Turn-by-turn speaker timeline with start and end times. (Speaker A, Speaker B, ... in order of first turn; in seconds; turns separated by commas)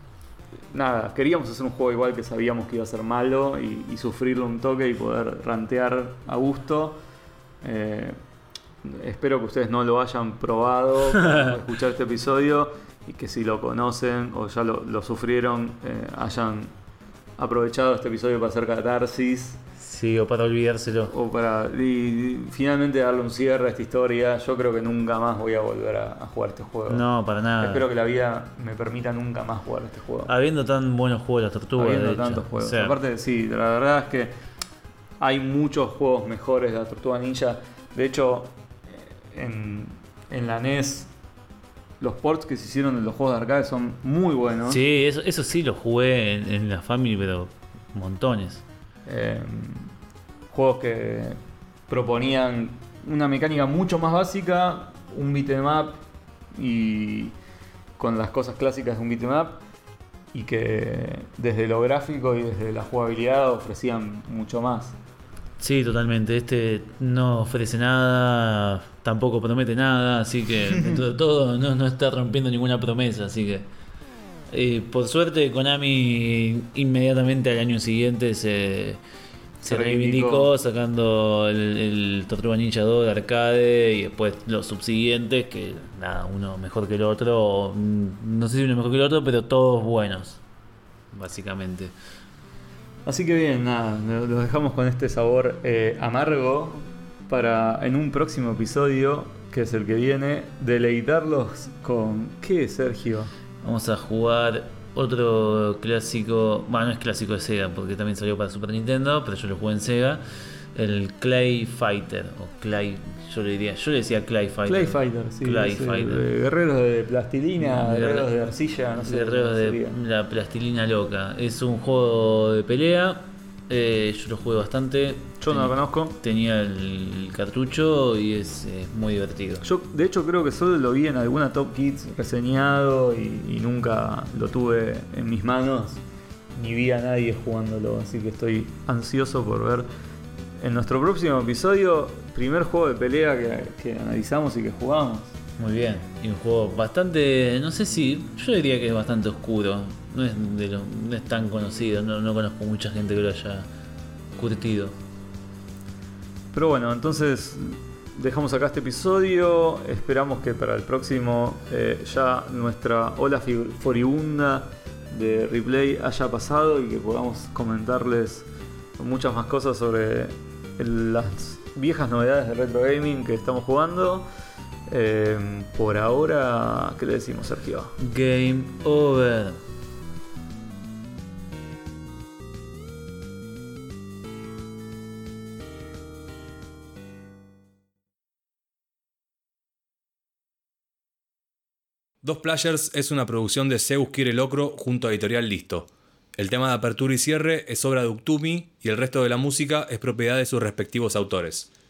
Speaker A: 0.7-7.0, Speaker A: 7.6-8.2, Speaker A: 8.8-16.7, Speaker A: 17.4-19.6, Speaker B: 19.8-21.1, Speaker A: 21.1-27.0, Speaker B: 26.9-27.9, Speaker A: 27.6-30.3, Speaker B: 30.3-33.0, Speaker A: 31.8-34.3, Speaker A: 35.2-41.1, Speaker A: 42.0-44.8, Speaker B: 44.7-48.6, Speaker A: 49.1-49.9, Speaker A: 50.5-51.4, Speaker A: 51.9-56.0, Speaker A: 56.5-57.3, Speaker A: 58.0-59.6, Speaker A: 60.3-65.0, Speaker B: 65.6-73.7, Speaker A: 70.7-71.0, Speaker B: 74.5-79.0, Speaker A: 79.6-80.5, Speaker B: 79.6-90.4, Speaker B: 91.1-91.9, Speaker A: 93.1-103.3, Speaker B: 103.6-110.2, Speaker B: 110.8-116.2, Speaker A: 114.7-120.0, Speaker B: 117.6-118.3, Speaker B: 119.0-129.7, Speaker A: 125.4-126.2, Speaker A: 129.6-136.0, Speaker A: 136.6-139.9, Speaker A: 140.6-145.3, Speaker B: 145.6-153.7, Speaker B: 154.3-154.9, Speaker A: 156.5-168.5, Speaker A: 169.0-174.3, Speaker A: 174.9-178.0, Speaker B: 178.0-179.6, Speaker C: 192.2-201.7